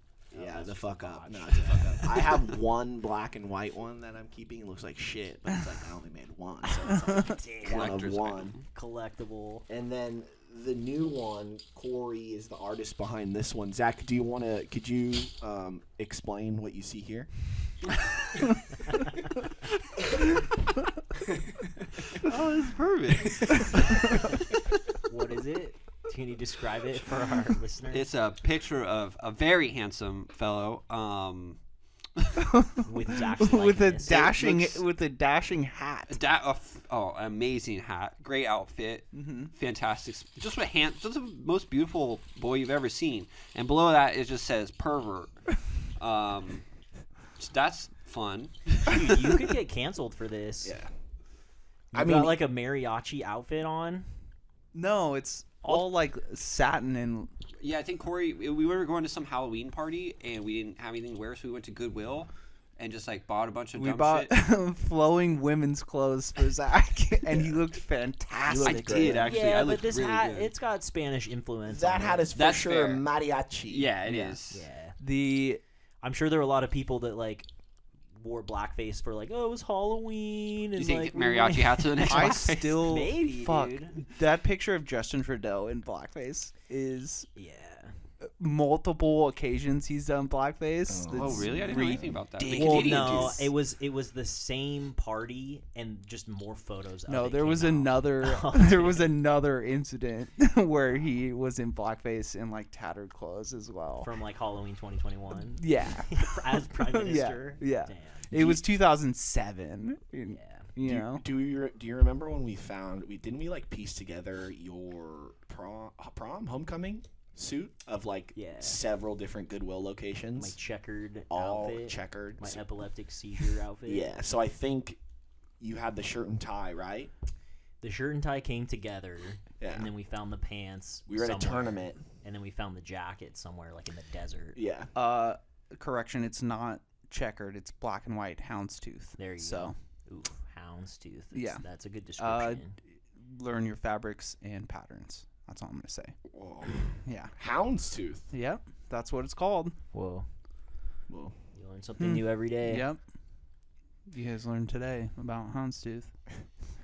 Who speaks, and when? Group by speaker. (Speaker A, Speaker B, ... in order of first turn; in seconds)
Speaker A: 0.3-2.5, 7.0-8.0, 8.7-9.7, 25.1-28.1, 32.8-34.4, 48.9-50.8, 51.9-54.1, 69.2-72.3, 74.1-75.0, 76.0-77.5, 78.2-84.0, 87.3-87.9, 92.5-99.1, 104.0-108.6, 110.3-110.7, 118.3-118.8, 120.4-124.1, 127.8-134.6, 139.2-142.8, 149.9-150.2, 151.5-152.8
Speaker B: 0.3-8.6, 9.7-17.3, 50.6-50.9, 51.9-52.4, 67.3-67.5, 68.4-69.4, 71.7-73.9, 90.9-92.2, 110.8-120.6, 121.3-122.6, 123.8-125.0, 125.6-127.1, 129.6-129.9, 131.1-132.0, 134.5-134.9, 146.3-148.3, 151.1-151.3
Speaker C: 7.6-8.6, 22.0-24.6, 27.9-31.6, 32.2-32.5, 34.3-34.7, 36.1-45.4, 46.0-46.6, 47.4-49.5, 57.6-64.3, 68.6-70.5, 72.3-73.0, 73.7-74.6, 80.7-83.0, 91.1-93.4
Speaker D: 32.5-32.8, 33.4-36.2, 39.1-39.5, 54.7-57.3, 63.8-69.2, 75.0-75.6, 82.0-87.3, 88.2-93.5, 97.1-104.1, 105.6-111.2, 134.9-139.7, 141.3-141.6, 142.2-146.1, 147.0-147.3, 148.3-149.8, 152.0-153.0, 154.1-156.1